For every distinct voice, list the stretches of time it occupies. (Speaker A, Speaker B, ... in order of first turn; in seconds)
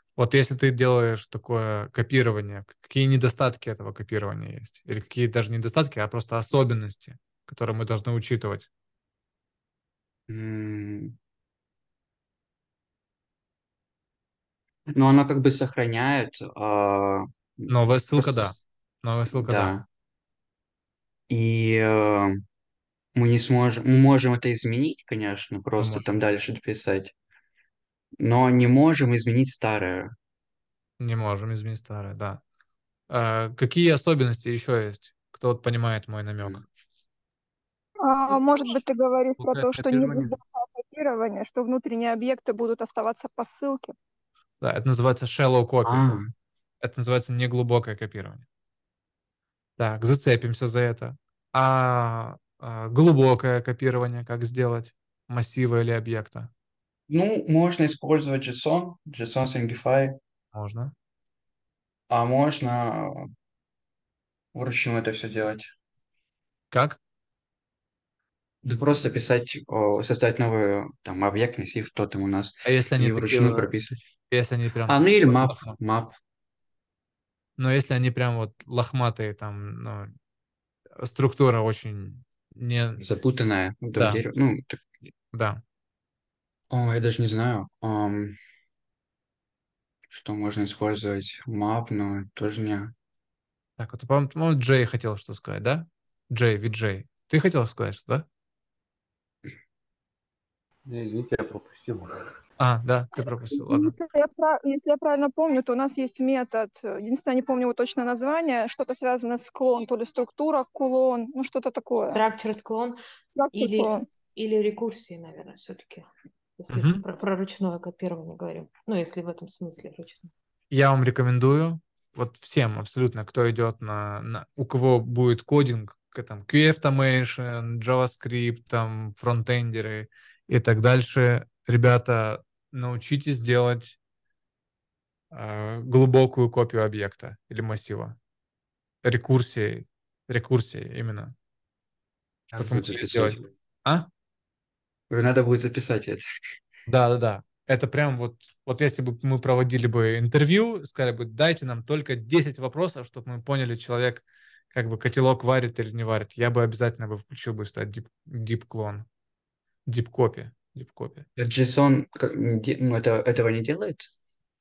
Speaker A: 0.2-8.7, 17.7-19.7, 25.8-26.1, 31.0-32.4, 33.1-36.6, 39.4-40.4, 44.6-46.2, 46.8-48.5, 49.8-56.5, 60.5-60.9, 66.7-67.0, 72.6-73.7, 74.3-75.8, 77.6-80.1, 81.0-83.0, 84.0-84.2, 85.3-85.6, 93.8-98.2, 102.6-104.0, 116.7-117.0, 120.7-134.0, 135.3-138.2, 139.0-141.3, 142.5-144.1, 146.9-159.1, 159.8-161.3
Speaker B: 10.3-11.2, 14.9-18.6, 19.3-19.8, 21.3-22.4, 23.1-27.1, 28.2-30.1, 45.9-46.3, 57.1-60.1, 62.1-63.3, 64.5-65.7, 68.6-74.0, 74.9-76.2, 83.0-84.8, 86.7-88.3, 90.1-92.9, 142.5-143.5, 145.1-146.2, 161.4-164.1
Speaker C: 38.0-44.0, 103.5-112.2, 113.3-114.0
Speaker D: 112.0-113.0, 113.5-116.0, 116.6-120.3